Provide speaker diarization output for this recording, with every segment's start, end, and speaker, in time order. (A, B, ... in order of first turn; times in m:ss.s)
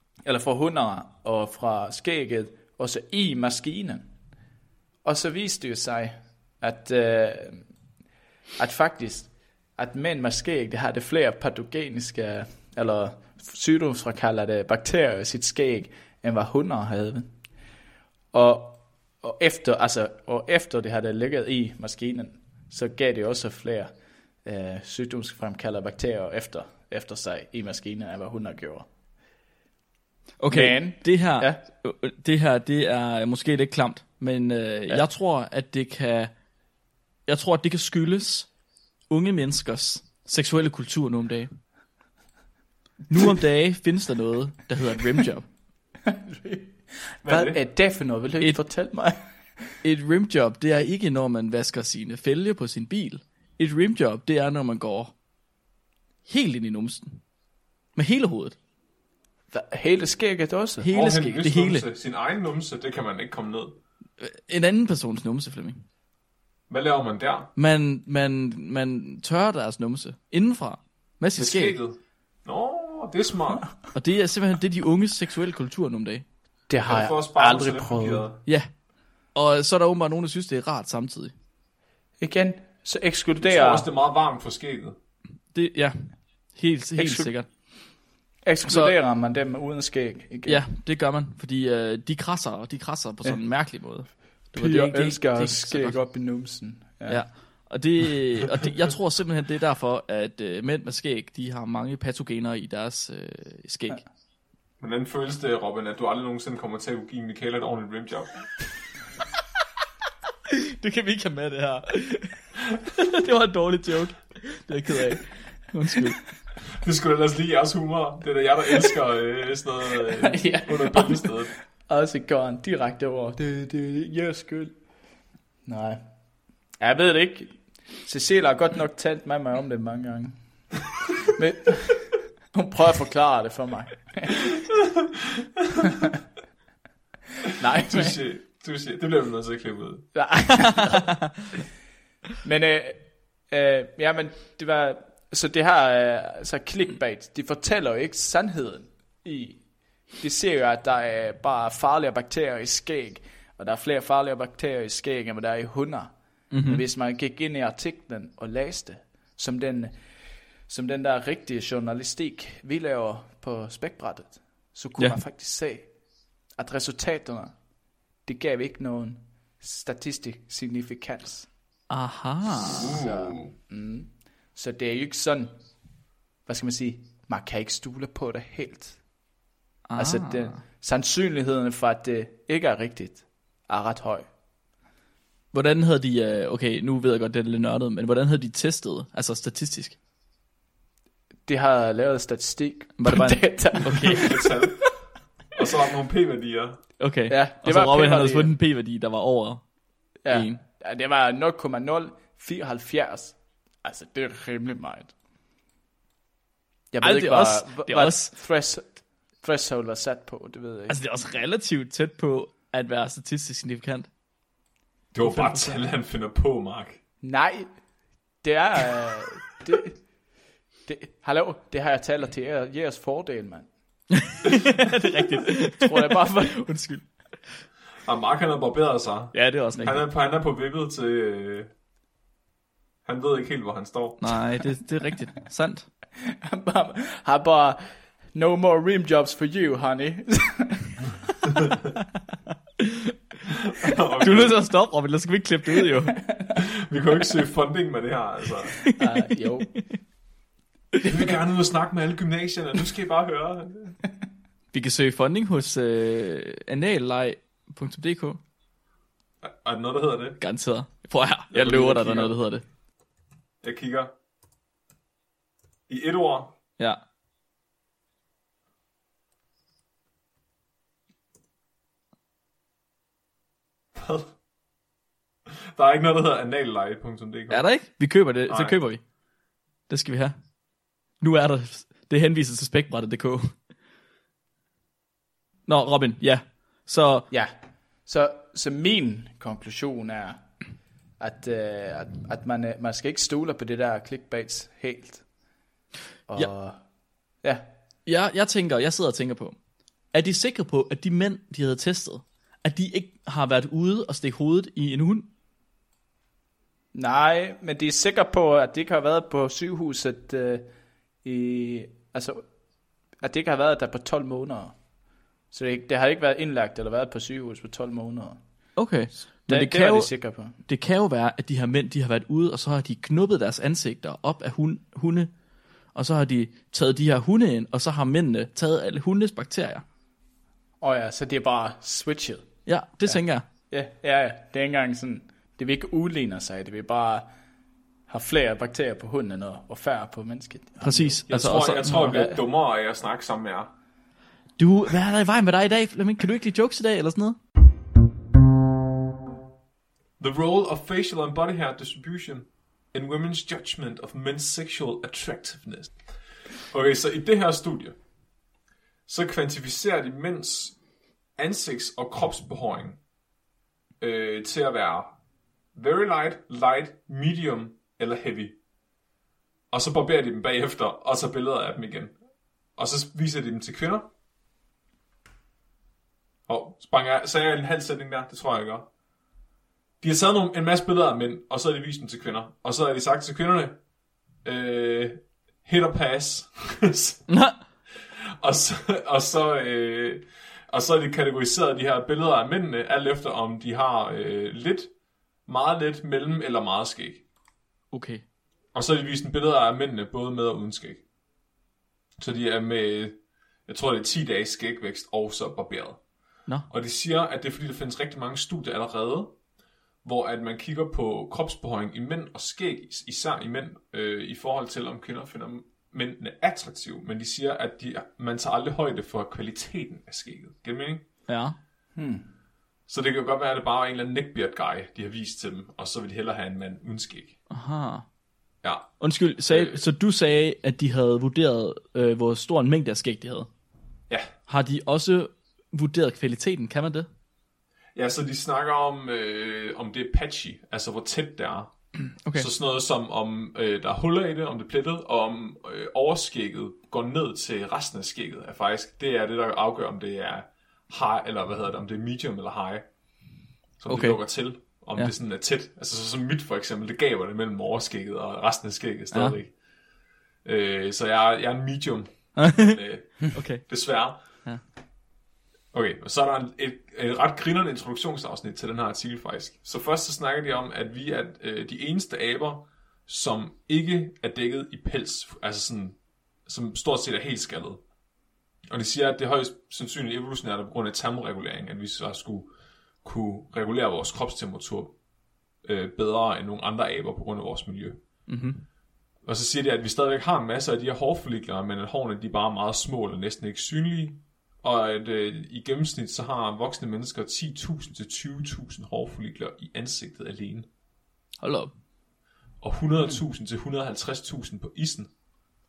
0:00.2-0:04.1 A
0:05.0-0:07.7 A
0:08.6-0:17.3 A
0:18.3-0:23.9 A
0:24.4-0:28.9 A
0:30.4-0:36.3 B
0:30.5-0:31.6 A
0:37.3-0:38.5 B
0:39.1-0:41.6 B
0:43.1-0:45.5 B
0:46.0-0:49.8 A
0:47.2-0:47.6 C
0:49.8-0:55.1 B
0:56.3-0:57.2 B
0:57.9-0:58.6 B
0:59.5-1:00.9 A
1:00.8-1:01.9 B
1:00.9-1:03.8 C
1:04.2-1:05.8 B
1:06.7-1:07.5 C
1:07.6-1:11.8 B
1:11.4-1:13.7 C
1:13.9-1:16.3 B
1:16.7-1:18.3 A
1:16.8-1:18.4 C
1:18.4-1:18.7 B
1:19.3-1:21.3 B
1:22.2-1:23.9 A
1:23.4-1:24.9 C
1:25.5-1:27.5 B
1:27.0-1:27.3 A
1:28.4-1:30.6 A
1:28.7-1:28.9 B
1:30.4-1:36.0 B
1:34.6-1:37.2 A
1:37.1-1:44.0 B
1:44.8-1:48.6 C
1:50.5-1:52.4 B
1:53.0-1:56.2 B
1:56.7-2:01.6 C
2:00.2-2:04.8 A
2:05.6-2:06.0 A
2:06.8-2:10.4 A
2:11.3-2:14.5 A
2:17.6-2:18.2 A
2:17.8-2:20.1 C
2:20.1-2:21.2 A
2:22.4-2:40.0 A
2:36.5-2:36.8 B
2:40.7-2:45.9 A
2:46.6-2:47.6 A
2:48.2-2:51.5 A
2:51.9-2:52.9 B
2:52.6-2:55.6 A
2:52.6-2:53.5 C
2:56.4-2:59.0 A
2:59.9-3:00.6 B
3:00.0-3:04.3 A
3:05.5-3:10.0 B
3:11.4-3:14.4 A
3:13.0-3:14.5 B
3:14.0-3:16.9 C
3:17.0-3:19.7 B
3:17.3-3:18.5 A
3:20.2-3:25.1 A
3:20.3-3:20.6 B
3:26.9-3:31.0 A
3:27.0-3:28.3 B
3:30.9-3:34.1 B
3:35.1-3:37.0 C
3:35.2-3:35.8 B
3:37.2-3:37.8 A
3:38.4-3:40.0 A
3:40.9-3:43.7 A
3:44.2-3:47.6 B
3:45.5-3:46.7 A
3:48.0-3:51.7 C
3:49.3-3:50.1 B
3:53.0-3:54.4 C
3:54.2-3:55.9 B
3:56.2-4:01.1 A
4:02.8-4:03.1 B
4:03.6-4:04.6 C
4:04.2-4:06.2 B
4:06.6-4:08.8 C
4:09.0-4:09.8 A
4:11.0-4:14.0 C
4:14.7-4:18.4 B
4:19.4-4:20.4 C
4:20.4-4:22.6 B
4:21.5-4:22.4 C
4:23.6-4:24.1 C
4:25.9-4:26.5 C
4:34.0-4:34.4 C
4:35.7-4:37.7 C
4:37.5-4:39.0 B
4:38.5-4:38.8 C
4:39.9-4:40.3 B
4:41.2-4:43.6 B
4:45.7-4:47.3 B
4:47.3-4:50.5 A
4:51.2-4:55.3 A
4:56.3-4:56.8 A
4:58.0-4:59.6 B
5:00.1-5:05.3 B
5:06.9-5:10.7 A
5:11.2-5:12.4 A
5:13.2-5:14.8 A
5:15.5-5:18.4 A
5:18.8-5:25.3 B
5:19.4-5:20.6 A
5:25.9-5:29.8 B
5:30.8-5:37.3 A
5:32.7-5:33.4 B
5:38.1-5:41.2 A
5:40.8-5:42.2 B
5:41.3-5:43.7 C
5:42.0-5:42.4 A
5:44.6-5:47.4 B
5:50.2-5:56.0 C
5:56.7-5:58.0 C
5:59.1-6:00.8 C
6:01.4-6:03.0 C
6:04.0-6:05.2 C
6:05.7-6:08.6 C
6:09.7-6:12.2 C
6:12.7-6:14.1 C
6:16.5-6:18.9 C
6:20.0-6:23.8 C
6:24.4-6:27.3 C
6:27.3-6:27.6 B
6:28.0-6:34.9 C
6:35.4-6:37.2 C
6:37.9-6:38.2 B
6:38.7-6:41.0 C
6:42.2-6:46.0 C
6:46.7-6:49.4 C
6:50.0-7:01.0 C
7:01.3-7:01.6 B
7:02.0-7:02.3 A
7:02.9-7:07.4 C
7:07.5-7:08.0 B
7:08.6-7:09.8 C
7:09.0-7:13.5 B
7:14.5-7:17.1 B
7:18.0-7:32.9 C
7:33.8-7:39.6 C
7:33.9-7:35.1 B
7:39.1-7:39.4 B
7:40.4-7:44.4 C
7:42.4-7:42.8 B
7:43.3-7:44.6 B
7:45.7-7:57.8 C
7:58.7-8:02.5 C
8:03.0-8:05.0 C
8:05.6-8:08.0 C
8:08.3-8:08.6 B
8:09.2-8:20.7 C
8:21.4-8:21.7 B
8:22.6-8:25.1 C